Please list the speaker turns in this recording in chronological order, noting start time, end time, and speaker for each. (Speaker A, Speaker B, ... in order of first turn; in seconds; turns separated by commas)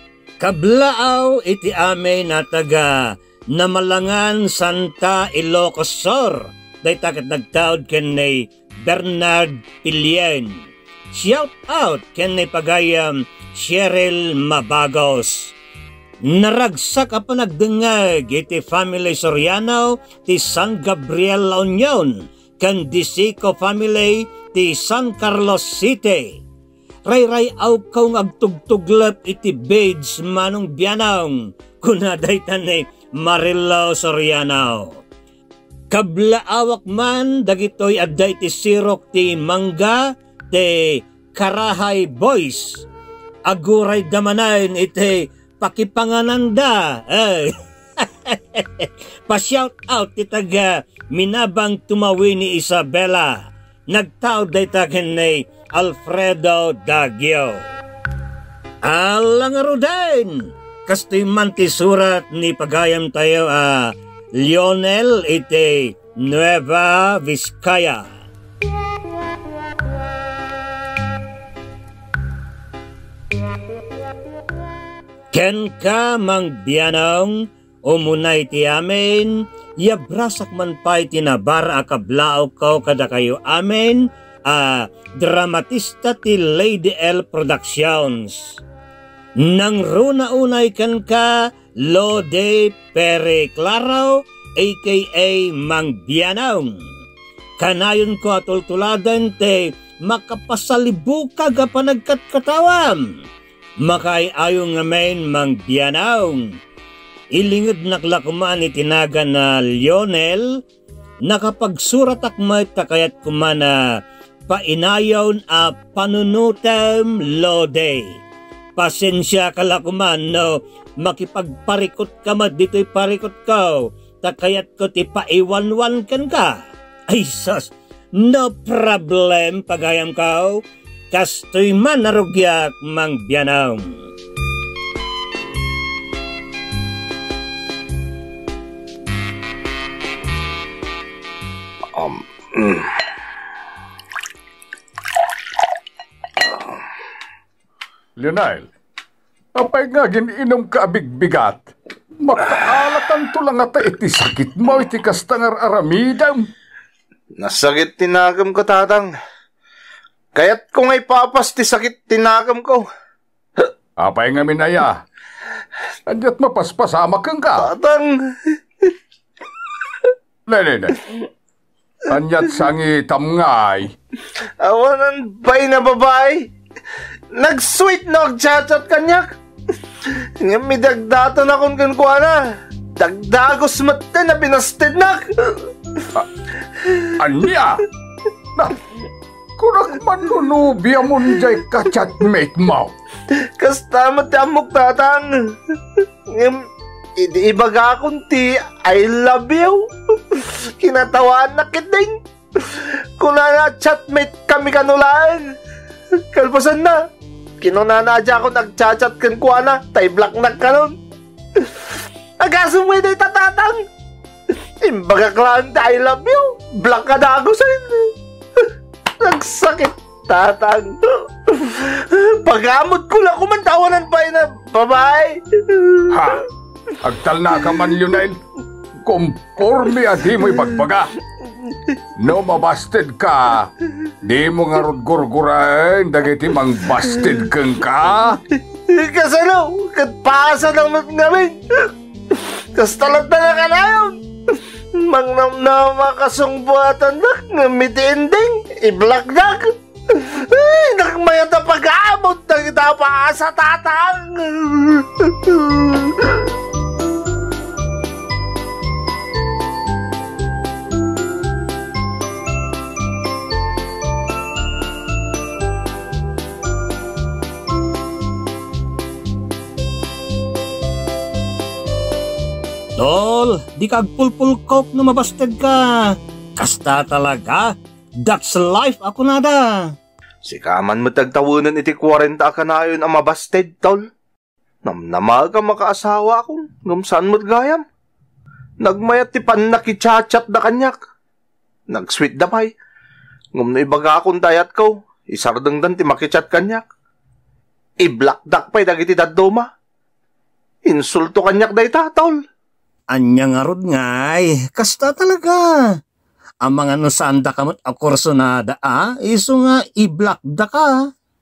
Speaker A: 0.4-2.9, Speaker A: 3.5-10.6, Speaker A: 11.1-15.5, Speaker A: 16.3-26.4, Speaker A: 27.1-35.0, Speaker A: 35.9-42.8, Speaker A: 43.5-53.4, Speaker A: 53.9-57.7, Speaker A: 58.8-68.0, Speaker A: 75.3-88.6, Speaker A: 89.4-96.8, Speaker A: 97.6-103.0, Speaker A: 103.8-106.5, Speaker A: 107.3-110.5, Speaker A: 111.3-113.7, Speaker A: 114.5-118.1, Speaker A: 118.8-134.0, Speaker B: 141.9-142.9, Speaker B: 146.5-146.7, Speaker C: 148.2-148.7, Speaker C: 149.6-151.7, Speaker C: 152.2-156.5, Speaker B: 157.4-159.1, Speaker B: 160.3-162.9, Speaker C: 164.0-165.0, Speaker C: 166.1-167.7, Speaker B: 167.6-168.9, Speaker C: 170.5-171.0, Speaker C: 172.1-173.9, Speaker B: 174.4-176.5, Speaker B: 177.3-179.3, Speaker B: 180.0-186.0, Speaker B: 186.8-187.1, Speaker C: 187.2-187.8, Speaker C: 189.6-192.9, Speaker B: 193.3-196.7, Speaker B: 197.2-205.5, Speaker B: 206.3-207.0, Speaker B: 207.6-211.0, Speaker B: 211.5-213.8, Speaker B: 214.5-226.3, Speaker C: 226.1-226.4, Speaker C: 227.0-228.4, Speaker C: 229.0-231.1, Speaker C: 232.2-233.7, Speaker C: 234.2-238.4, Speaker B: 238.9-256.5, Speaker A: 273.0-277.7, Speaker A: 278.2-279.9, Speaker B: 280.4-284.0, Speaker B: 284.8-287.8, Speaker B: 288.8-290.9, Speaker B: 291.9-292.7, Speaker B: 293.6-296.9, Speaker B: 298.0-299.7, Speaker B: 300.9-302.4, Speaker A: 303.1-305.7, Speaker A: 306.6-310.9